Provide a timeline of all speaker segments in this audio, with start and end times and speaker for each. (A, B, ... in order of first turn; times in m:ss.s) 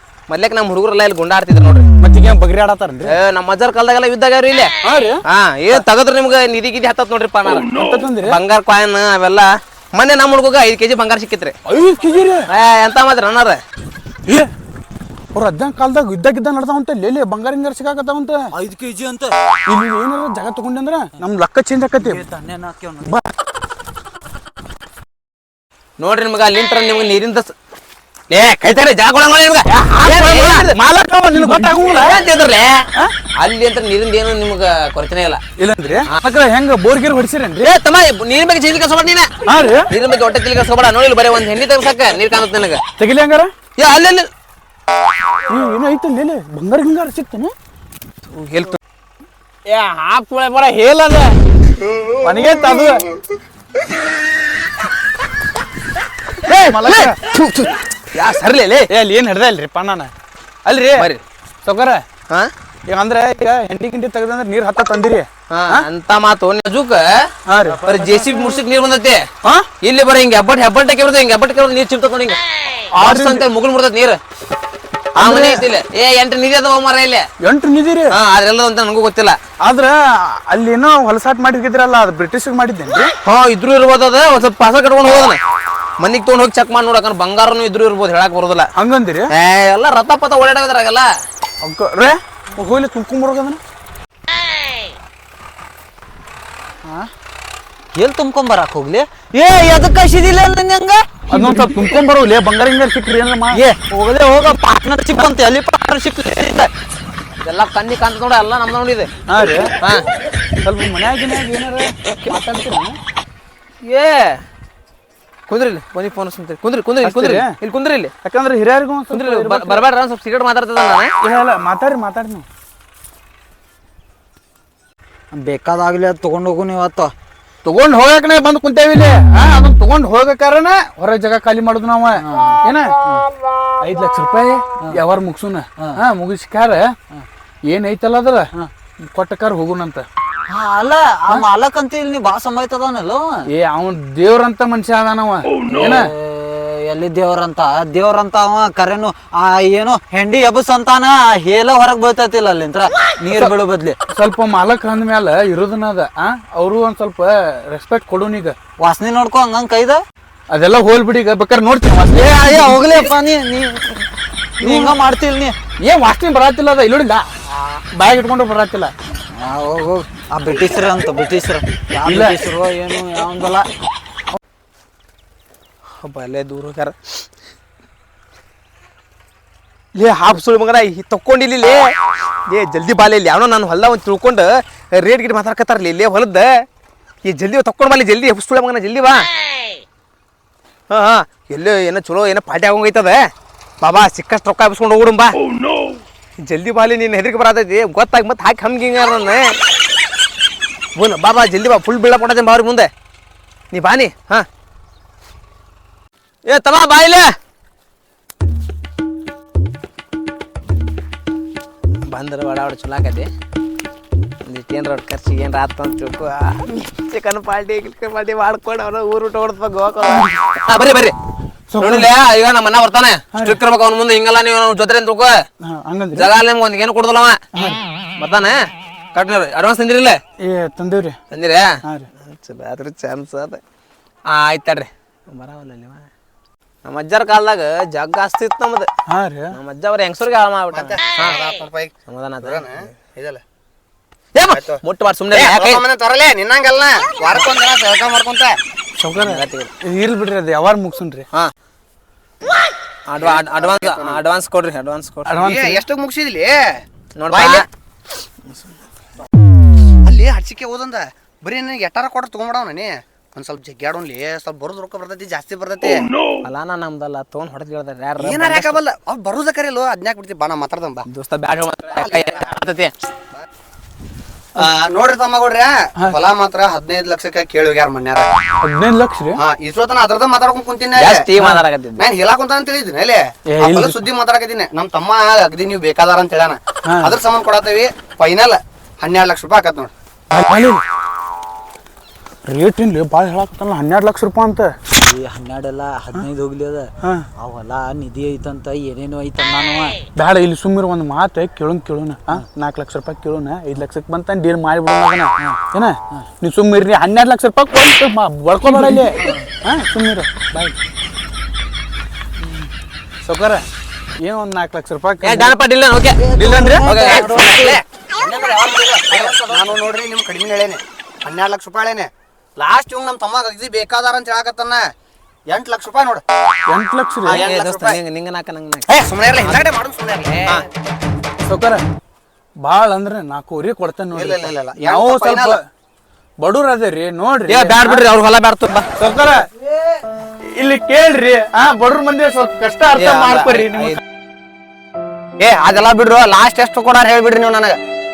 0:00.3-0:01.8 A
0:02.0-0:03.1 B
0:03.0-0:04.7 A
0:04.8-0:05.2 B
0:05.3-0:07.7 A
0:07.7-0:08.4 B
0:08.2-0:11.5 A
0:11.6-0:12.5 B
0:12.5-0:13.6 A
0:14.2-0:14.5 B
0:15.3-0:18.5 B
0:18.5-0:19.4 C
0:19.6-0:22.2 B
0:22.0-0:23.1 C
0:23.0-0:23.3 B
0:26.0-0:27.5 A
0:28.3-0:30.8 A
0:29.7-0:32.2 B
0:31.6-0:32.8 A
0:33.4-0:35.4 A
0:35.6-0:37.7 B
0:37.6-0:39.3 A
0:39.4-0:39.9 B
0:39.9-0:42.8 A
0:43.0-0:43.5 B
0:43.8-0:44.3 A
0:45.5-0:47.5 B
0:48.3-0:48.8 A
0:49.7-0:51.4 A
0:52.2-0:53.1 B
0:56.4-0:57.1 A
0:56.5-0:57.4 B
0:58.1-0:58.9 A
0:58.9-1:00.1 B
1:00.6-1:01.1 B
1:01.0-1:01.2 A
1:01.6-1:02.0 B
1:02.9-1:05.8 B
1:05.5-1:07.2 A
1:07.4-1:08.0 B
1:07.8-1:09.2 A
1:09.8-1:12.4 A
1:12.9-1:13.5 B
1:13.0-1:14.2 A
1:15.2-1:15.7 B
1:15.2-1:17.2 A
1:17.4-1:18.2 B
1:18.1-1:19.4 A
1:19.6-1:23.1 B
1:23.2-1:25.4 A
1:26.0-1:28.7 A
1:28.8-1:29.3 B
1:29.3-1:31.1 A
1:31.6-1:33.6 B
1:36.8-1:37.1 B
1:38.0-1:41.1 C
1:41.3-1:43.6 B
1:43.5-1:46.7 C
1:47.4-1:49.1 A
1:49.3-1:49.7 B
1:49.8-1:50.1 A
1:50.6-1:53.0 B
1:53.8-1:54.4 A
1:55.5-1:58.1 A
1:57.0-1:57.6 B
1:58.2-1:59.8 B
1:59.1-2:01.1 A
2:01.2-2:02.4 B
2:05.4-2:07.1 C
2:07.6-2:13.0 B
2:12.2-2:13.2 C
2:13.8-2:17.0 B
2:17.6-2:18.5 B
2:19.0-2:20.0 B
2:20.5-2:23.5 C
2:23.5-2:26.1 B
2:25.7-2:34.0 C
2:34.1-2:38.6 B
2:38.8-2:40.0 C
2:40.5-2:42.8 B
2:42.1-2:44.0 C
2:44.6-2:45.0 B
2:44.6-2:45.6 C
2:45.8-2:48.9 B
2:49.3-2:53.7 C
2:52.0-2:52.4 B
2:56.0-2:57.2 A
2:59.9-3:01.9 A
3:02.5-3:06.6 A
3:07.2-3:09.2 A
3:10.9-3:13.2 A
3:13.8-3:15.4 A
3:16.4-3:19.5 A
3:21.0-3:22.9 A
3:23.7-3:24.4 A
3:26.5-3:27.3 A
3:32.1-3:33.3 A
3:34.4-3:41.1 A
3:41.7-3:42.1 B
3:41.8-3:45.4 A
3:43.3-3:43.6 B
3:45.6-3:46.3 B
3:46.2-3:47.4 A
3:47.5-3:47.8 B
3:48.2-3:50.2 A
3:50.4-3:51.2 B
3:51.3-3:53.6 A
3:54.3-3:56.1 A
3:56.8-3:58.9 A
3:59.1-3:59.5 B
3:59.5-4:01.4 A
4:00.7-4:03.4 D
4:02.1-4:02.7 A
4:04.3-4:05.8 A
4:04.5-4:04.8 D
4:05.3-4:08.6 D
4:09.0-4:11.3 B
4:09.2-4:09.7 A
4:13.1-4:15.3 A
4:13.2-4:14.2 D
4:15.2-4:15.8 B
4:15.4-4:17.6 D
4:17.2-4:17.7 A
4:20.0-4:26.1 D
4:26.4-4:28.8 A
4:28.2-4:31.0 D
4:31.1-4:32.9 A
4:32.0-4:32.3 D
4:34.6-4:38.3 D
4:38.6-4:39.4 B
4:39.4-4:41.2 D
4:41.0-4:42.0 A
4:42.0-4:49.9 D
4:43.5-4:44.0 B
4:46.8-4:47.2 B
4:50.3-4:50.8 B
4:52.5-4:54.7 B
4:55.0-5:00.0 C
5:00.1-5:10.7 B
5:13.2-5:13.6 B
5:14.2-5:15.6 B
5:15.2-5:16.2 A
5:16.2-5:17.8 C
5:16.3-5:16.9 B
5:16.8-5:17.8 A
5:17.2-5:17.6 D
5:18.2-5:24.8 D
5:19.1-5:19.7 A
5:25.5-5:26.2 D
5:26.7-5:27.5 B
5:27.2-5:28.0 D
5:27.3-5:29.7 A
5:28.9-5:30.6 D
5:31.4-5:31.8 B
5:32.6-5:35.6 B
5:34.1-5:35.6 D
5:36.4-5:38.0 B
5:37.5-5:38.9 A
5:39.0-5:39.5 B
5:40.6-5:44.0 B
5:43.0-5:44.0 A
5:45.4-5:47.8 D